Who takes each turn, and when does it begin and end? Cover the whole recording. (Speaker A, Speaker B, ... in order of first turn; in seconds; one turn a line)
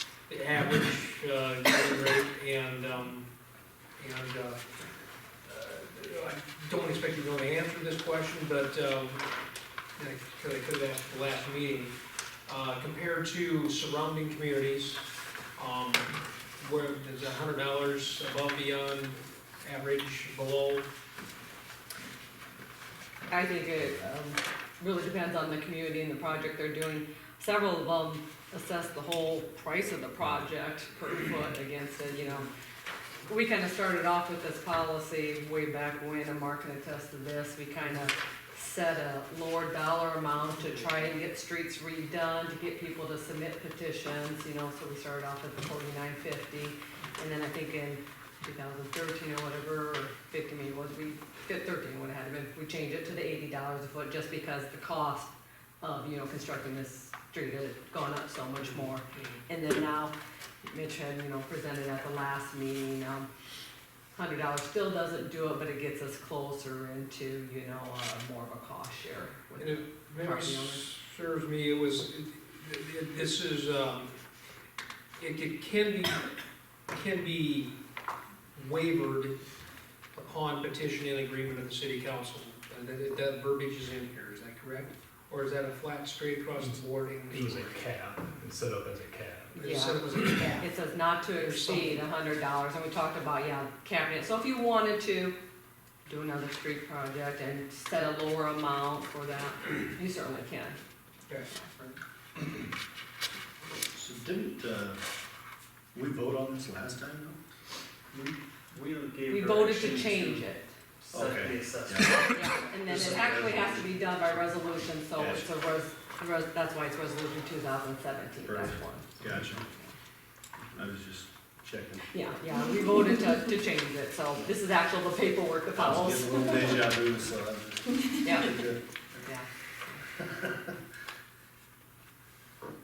Speaker A: 0.3-3.3
Speaker A: 4.0-4.6
Speaker A: 5.4-9.2
Speaker A: 9.9-11.9
Speaker A: 12.4-20.9
Speaker B: 23.3-32.5
Speaker B: 33.3-63.3
Speaker A: 58.6-59.4
Speaker B: 64.1-70.8
Speaker A: 69.6-74.1
Speaker A: 75.2-76.3
Speaker A: 76.9-77.7
Speaker A: 78.5-79.4
Speaker A: 80.1-87.9
Speaker C: 87.3-89.6
Speaker A: 89.5-90.7
Speaker B: 89.6-95.3
Speaker A: 91.2-92.0
Speaker B: 96.1-100.8
Speaker B: 101.5-101.8
Speaker D: 103.9-105.0
Speaker D: 105.9-107.4
Speaker E: 108.1-112.4
Speaker B: 109.3-110.7
Speaker D: 111.1-113.9
Speaker B: 112.3-119.9
Speaker D: 115.2-115.4
Speaker D: 118.4-119.6
Speaker D: 120.7-122.1
Speaker B: 122.1-126.8
Speaker D: 125.8-128.8
Speaker B: 128.2-128.6
Speaker B: 129.2-130.0
Speaker D: 130.2-130.6